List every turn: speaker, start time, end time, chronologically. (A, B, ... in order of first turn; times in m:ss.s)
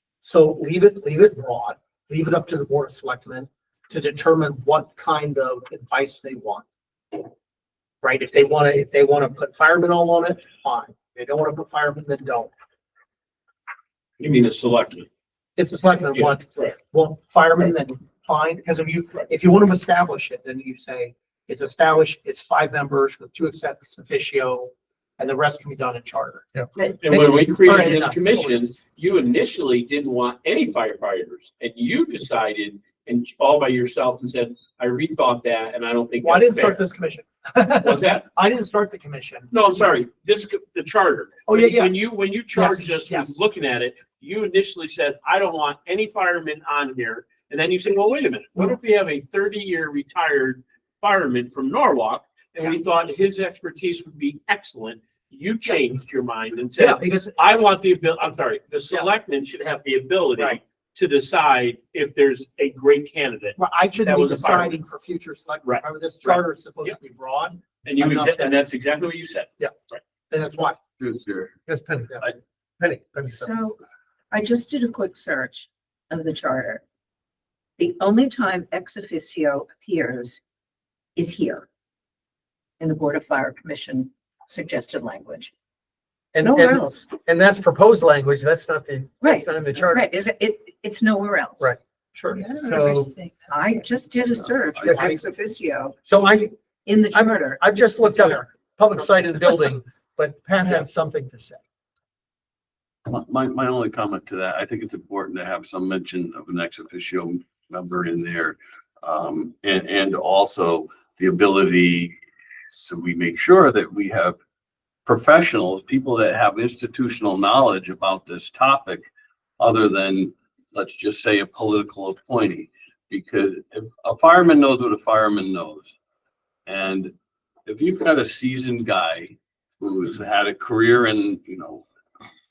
0:00.2-0:06.6 A
0:08.0-0:12.5 A
0:14.2-0:15.1 B
0:15.6-0:26.4 A
0:16.0-0:16.7 B
0:26.8-0:36.8 B
0:27.1-0:28.5 A
0:36.2-0:39.5 A
0:37.8-0:38.2 B
0:39.5-1:04.8 B
0:41.5-0:41.9 A
0:42.5-0:43.3 A
0:56.8-0:57.4 A
1:03.6-1:08.6 A
1:05.6-1:07.0 B
1:07.8-1:10.0 B
1:10.3-1:10.8 A
1:11.0-1:11.6 C
1:11.7-1:12.2 D
1:12.8-1:13.5 D
1:13.2-1:13.8 E
1:14.3-1:16.8 E
1:17.8-1:20.4 E
1:21.2-1:21.6 E
1:22.8-1:25.5 E
1:26.3-1:30.1 D
1:26.4-1:26.9 E
1:29.2-1:31.7 E
1:32.1-1:32.4 A
1:32.3-1:36.0 E
1:32.4-1:33.2 D
1:34.8-1:35.2 D
1:36.0-1:36.5 D
1:36.8-1:38.4 E
1:37.1-1:41.6 D
1:43.0-1:52.2 C
1:52.7-1:54.4 C
1:55.0-2:05.9 C
2:06.6-2:07.1 C
2:07.6-2:11.8 C